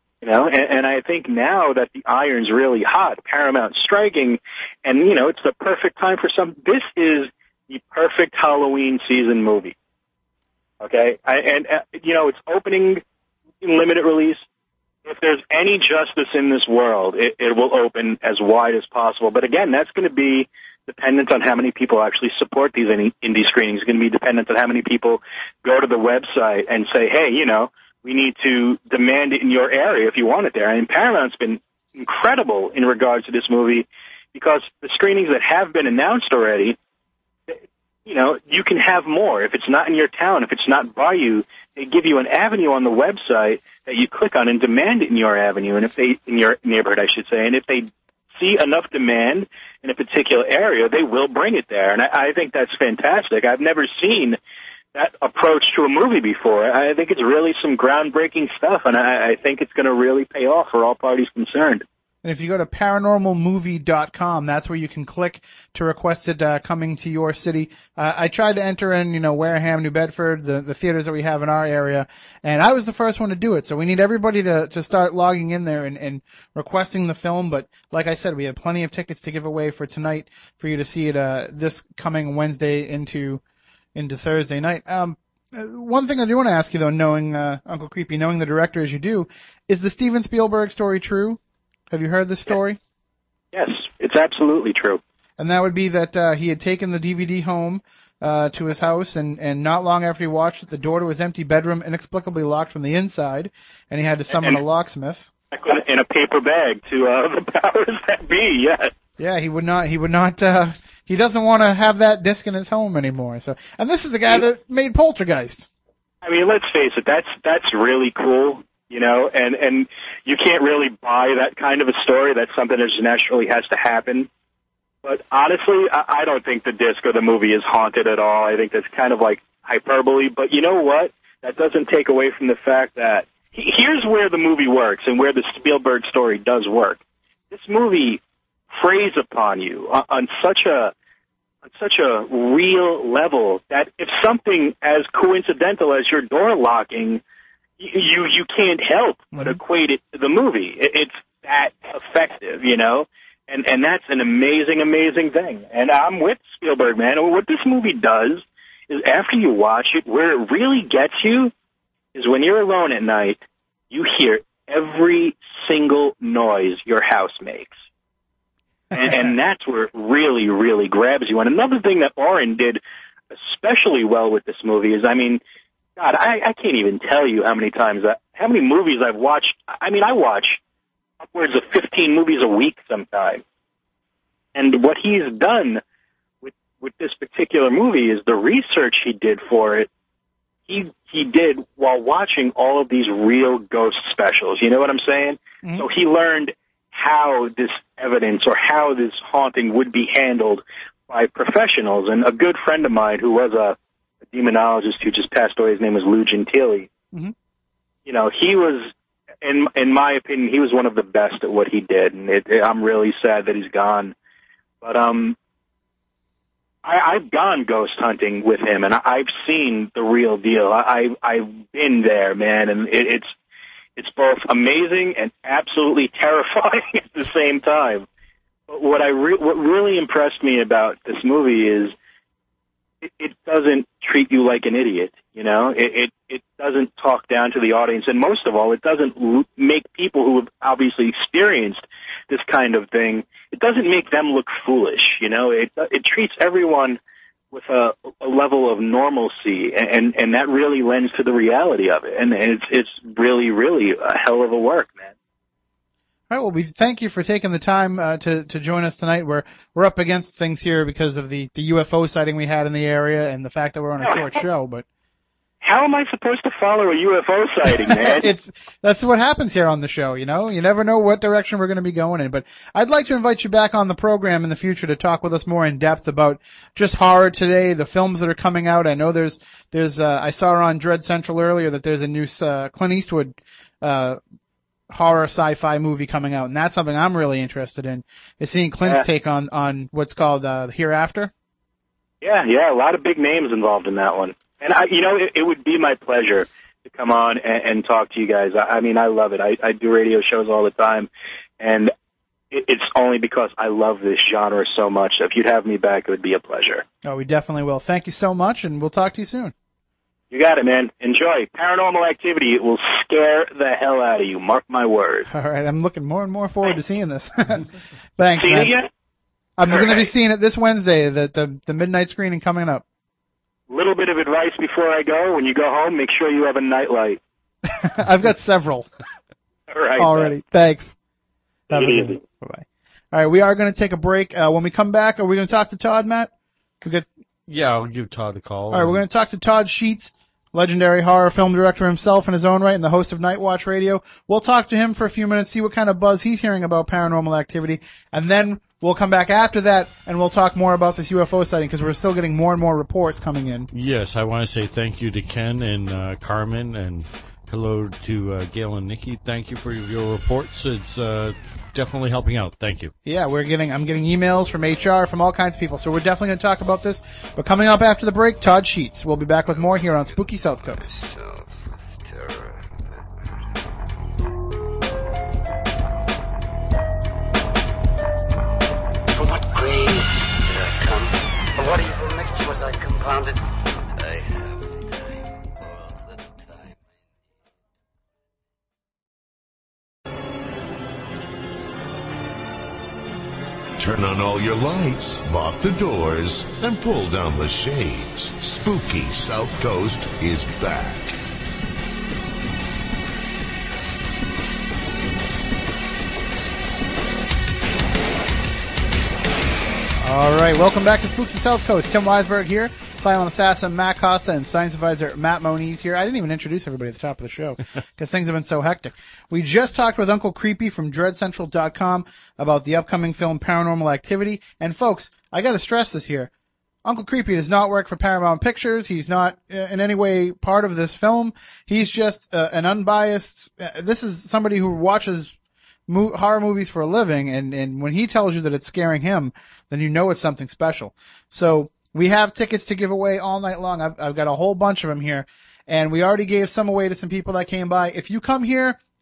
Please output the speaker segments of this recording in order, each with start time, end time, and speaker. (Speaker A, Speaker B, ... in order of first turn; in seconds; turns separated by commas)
Speaker A: 0.2-9.8, Speaker A: 10.8-13.0, Speaker A: 13.6-14.4, Speaker A: 15.1-36.8, Speaker A: 37.5-54.4, Speaker A: 55.0-61.8, Speaker B: 62.2-83.4, Speaker B: 84.0-92.8, Speaker A: 93.5-95.0, Speaker B: 95.4-105.3, Speaker A: 105.5-108.9, Speaker B: 109.2-115.7, Speaker A: 116.2-124.3, Speaker A: 125.0-140.9, Speaker A: 141.7-147.2, Speaker A: 147.8-161.5, Speaker B: 149.3-149.6, Speaker A: 162.2-167.7, Speaker A: 168.9-172.8, Speaker B: 169.0-169.3, Speaker A: 173.3-175.4, Speaker A: 176.0-180.6, Speaker A: 181.2-183.4, Speaker A: 184.6-185.8, Speaker A: 186.4-189.9, Speaker A: 190.7-203.8, Speaker A: 204.3-206.9, Speaker A: 208.1-208.9, Speaker A: 209.4-214.1, Speaker A: 214.8-215.4, Speaker A: 216.8-223.3, Speaker A: 224.0-228.1, Speaker A: 228.7-231.9, Speaker A: 233.0-247.0, Speaker A: 247.5-255.1, Speaker B: 256.3-264.9, Speaker A: 264.0-264.3, Speaker A: 265.6-268.3, Speaker B: 267.8-284.2, Speaker B: 284.9-291.3, Speaker A: 292.2-301.1, Speaker A: 301.6-301.9, Speaker A: 302.5-306.8, Speaker B: 307.0-309.5, Speaker A: 310.3-315.3, Speaker B: 315.2-318.8, Speaker A: 318.4-318.9, Speaker B: 319.6-322.8, Speaker A: 319.7-320.1, Speaker A: 323.7-327.2, Speaker B: 327.8-328.9, Speaker A: 329.7-330.3, Speaker B: 330.0-331.0, Speaker B: 331.7-336.3, Speaker A: 331.7-332.2, Speaker B: 336.8-337.1, Speaker C: 337.5-339.0, Speaker B: 338.7-353.7, Speaker C: 353.7-362.9, Speaker B: 363.1-370.9, Speaker D: 370.9-372.8, Speaker D: 379.1-383.4, Speaker D: 383.9-386.8, Speaker E: 393.8-401.2, Speaker B: 410.0-426.3, Speaker B: 426.9-435.3, Speaker B: 435.9-448.8